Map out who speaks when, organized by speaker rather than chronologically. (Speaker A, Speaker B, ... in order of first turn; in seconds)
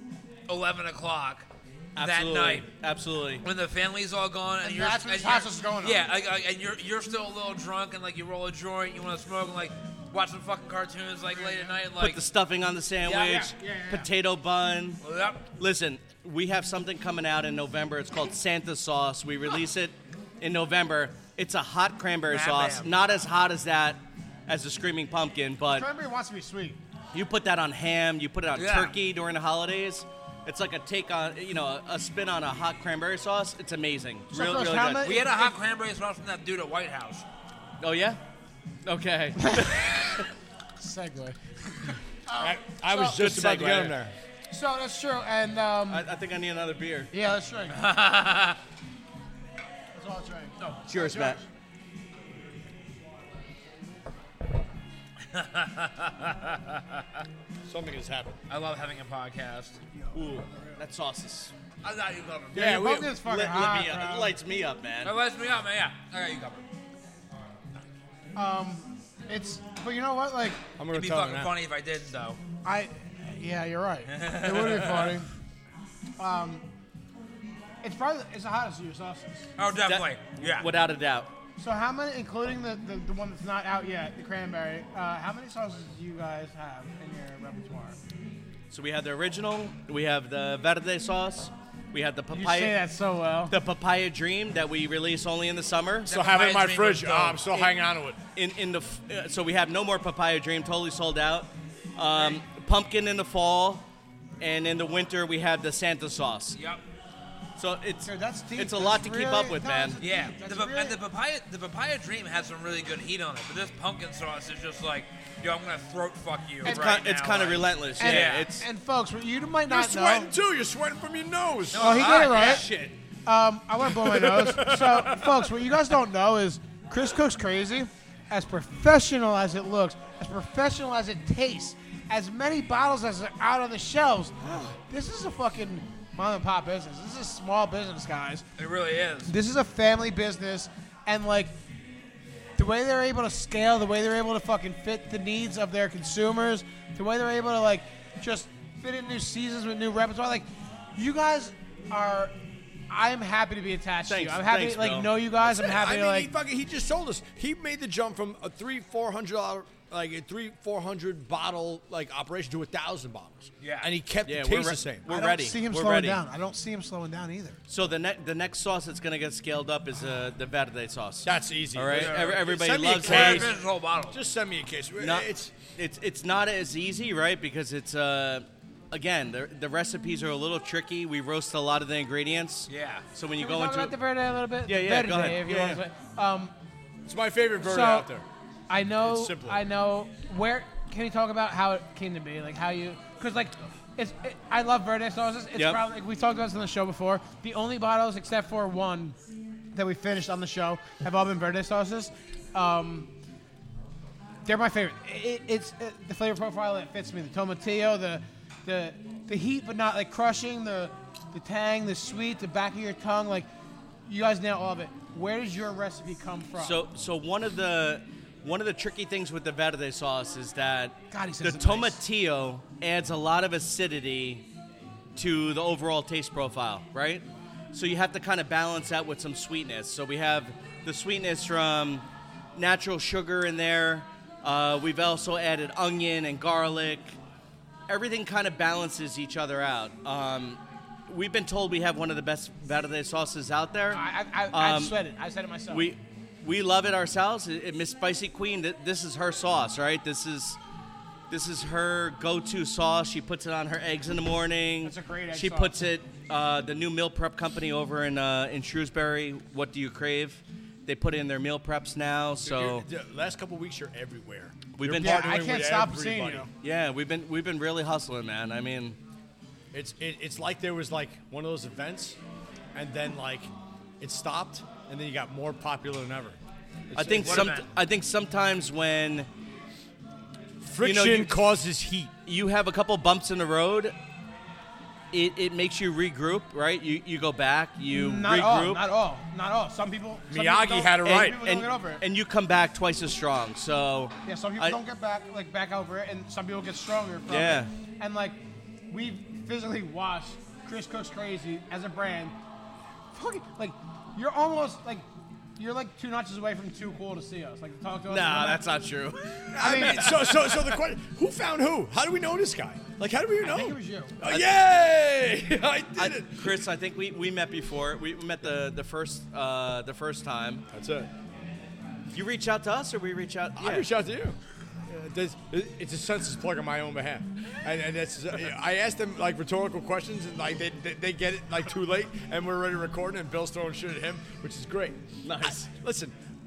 Speaker A: 0.5-2.6, 3.4-12.2, 13.0-13.4, 15.0-15.4, 22.3-23.0, 28.5-28.9, 35.0-37.2, 47.7-48.6, 50.6-50.8, 55.3-57.0, 58.5-59.8, 61.8-62.6, 65.0-66.6, 70.9-72.4, 74.1-75.2, 79.6-80.7, 96.1-97.6, 106.5-106.8, 110.0-118.5, 121.7-122.9, 138.6-139.3, 163.6-163.9, 171.9-174.2, 182.7-183.0, 277.1-277.6
Speaker B: 1.9-3.4, 12.0-15.0, 15.6-25.9, 27.1-35.2, 37.8-38.2, 38.8-40.2, 42.9-44.0, 45.9-47.1, 50.9-51.4, 60.1-61.5, 62.6-65.1, 79.8-81.3, 88.7-92.8, 93.5-96.1, 98.3-103.8, 104.4-106.6, 107.6-110.0, 116.6-118.7, 154.1-155.2, 164.2-166.2, 167.7-173.5, 175.0-183.9, 184.6-185.8, 195.5-195.8, 216.6-224.4, 225.2-237.2, 237.9-245.0, 245.7-250.6, 251.3-262.8, 264.7-265.3, 266.6-269.0, 276.9-279.3, 280.8-281.4, 282.2-283.9, 285.1-288.8, 291.1-294.8, 297.3-297.7, 308.1-310.8, 315.9-320.6, 322.1-323.9, 335.2-335.7
Speaker C: 4.6-6.0, 11.3-11.7, 13.1-14.1, 25.6-26.8, 34.3-35.5, 39.5-39.9, 40.8-43.1, 44.5-46.0, 47.1-47.8, 49.9-51.5, 59.9-60.8, 62.5-64.3, 68.3-70.6, 72.6-75.3, 76.2-76.7, 77.8-79.5, 81.6-88.0, 92.3-93.6, 108.0-111.0, 116.6-117.0, 118.0-120.3, 121.7-122.7, 123.2-138.4, 139.2-141.5, 142.6-152.3, 152.9-156.3, 165.1-167.6, 183.4-186.5, 187.6-188.1, 188.7-199.2, 199.7-203.1, 204.4-213.5, 214.1-216.8, 221.1-222.0, 243.9-245.9, 254.8-255.8, 264.9-266.5, 287.9-292.0, 294.2-298.4, 298.9-302.4, 303.1-305.1, 305.6-308.6, 309.6-310.1, 313.4-314.1
Speaker D: 42.4-44.1, 57.6-58.4, 62.5-63.1, 70.8-71.5, 96.1-98.2, 119.7-122.7, 123.8-125.8, 155.4-165.1, 171.2-173.6, 174.1-175.5, 187.1-188.2, 189.0-189.6, 262.4-266.5, 269.7-272.2, 272.7-276.4, 276.9-277.6, 280.6-282.2, 290.3-291.4, 309.5-316.6, 320.7-321.1, 323.6-336.1